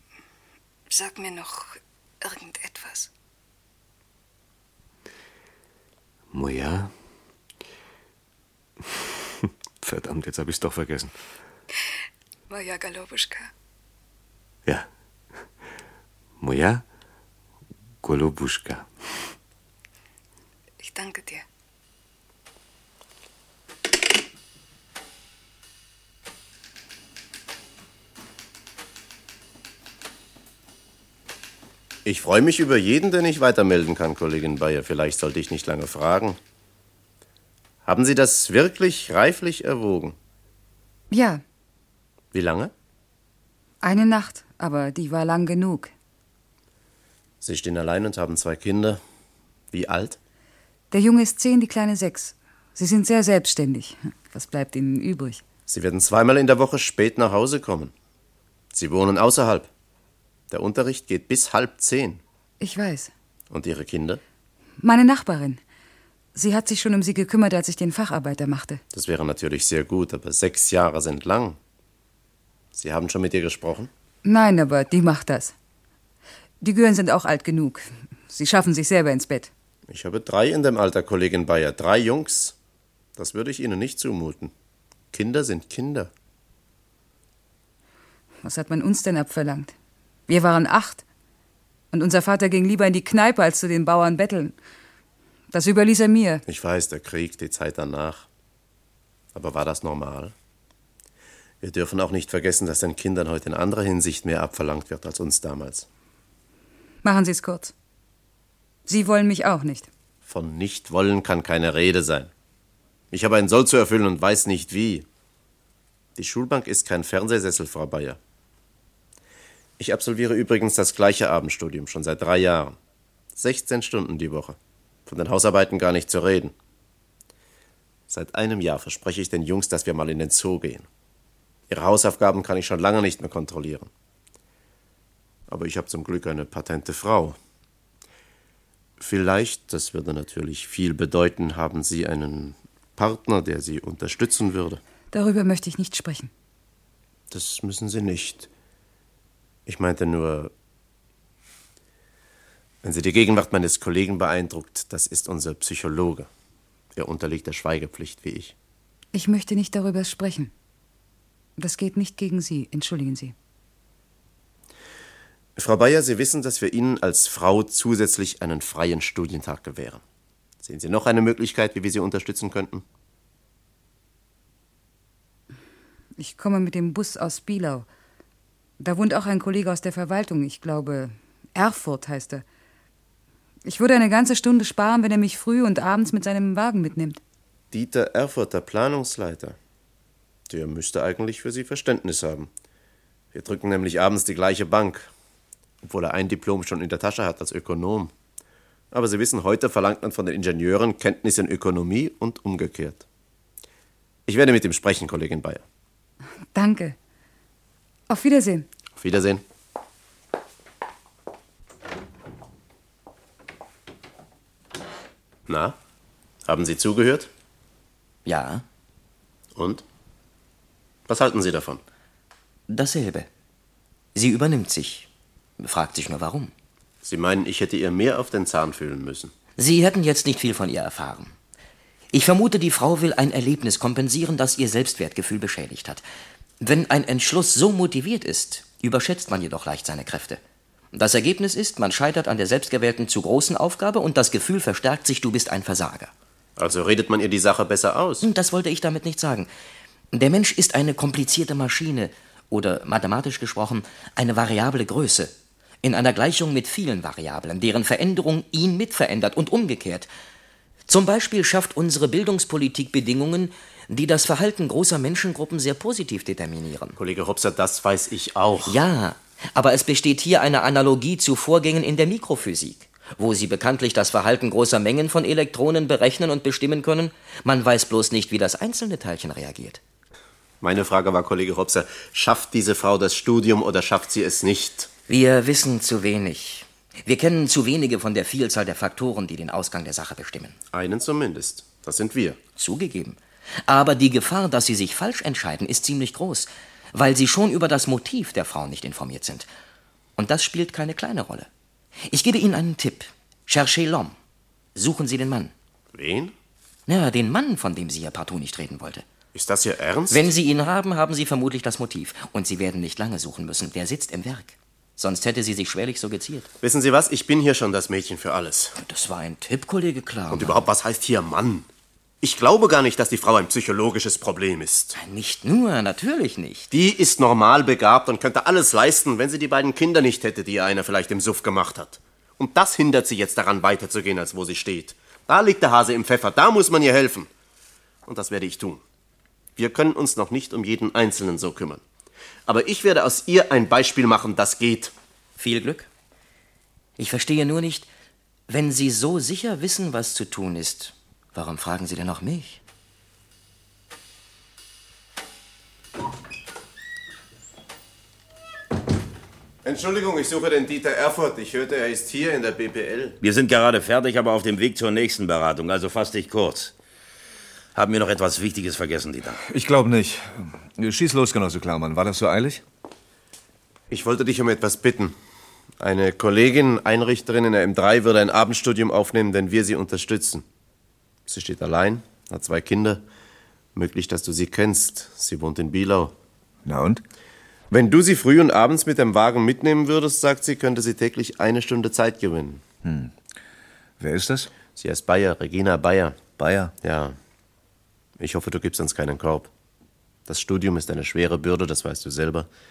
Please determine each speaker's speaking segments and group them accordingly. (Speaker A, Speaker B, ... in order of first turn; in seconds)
Speaker A: 0.9-3.1, 12.5-13.5, 20.8-21.4
Speaker B: 6.3-6.9, 8.8-11.2, 16.4-16.8, 18.0-18.9
Speaker C: 32.0-36.4, 37.8-40.2, 42.3-42.7, 47.4-49.0, 49.7-50.2, 55.7-57.9, 58.7-59.7, 60.5-62.2, 63.5-64.2, 68.9-71.6, 72.7-73.9, 79.9-82.6, 83.2-84.5, 85.1-86.1, 96.5-98.3, 99.3-100.3, 101.6-105.9, 110.3-112.3, 113.1-115.1, 116.2-118.2, 119.8-122.8, 123.4-126.5, 128.1-130.9, 131.7-133.9, 135.5-137.4, 139.0-144.8, 147.3-148.5, 149.7-150.5, 152.8-156.3, 156.9-158.6, 165.6-170.0, 170.6-172.8, 187.7-189.6, 190.5-192.5, 193.3-195.1, 195.8-198.1, 198.9-203.1, 204.3-205.6, 209.0-209.4, 215.5-215.8, 216.4-217.3, 219.6-219.8, 221.1-221.8, 227.0-229.3, 246.6-248.3, 267.0-268.8, 280.6-284.9, 290.7-292.4, 305.9-306.4, 309.3-310.3, 316.6-318.8, 320.3-321.7, 322.2-324.9, 326.7-337.3, 338.1-338.8, 339.6-341.8, 342.5-344.9, 359.6-363.2, 373.9-375.1, 375.8-380.4, 381.3-383.0, 383.8-386.1, 387.7-392.6, 394.7-396.3, 396.8-397.2, 398.2-399.5, 400.3-402.5
Speaker D: 41.1-41.4, 43.8-45.9, 50.9-55.4, 62.6-63.1, 64.8-65.6, 66.3-68.8, 74.2-75.5, 76.6-79.5, 88.4-89.7, 90.3-91.0, 91.9-94.5, 95.5-96.4, 107.0-107.7, 108.9-109.9, 145.1-146.3, 159.1-160.5, 161.6-163.3, 176.2-177.9, 178.8-182.4, 183.7-187.2, 206.5-207.0, 208.1-208.7
Speaker E: 218.2-218.7, 222.7-223.3, 224.2-225.1, 225.6-226.5, 229.6-231.3, 232.1-236.0, 236.6-240.4, 240.9-246.1, 248.2-249.5, 250.1-260.1, 260.9-267.0, 268.7-279.8, 285.1-290.6, 292.6-299.5, 300.2-301.5, 302.1-304.2, 304.8-305.5, 306.9-309.1, 310.1-316.5, 318.8-320.7, 324.9-326.7, 345.4-345.9, 347.0-347.9, 348.5-352.6
Speaker F: 363.2-366.7, 367.8-369.4
Speaker G: 369.4-372.6, 386.6-387.0, 392.8-393.1, 394.0-394.5, 396.4-396.7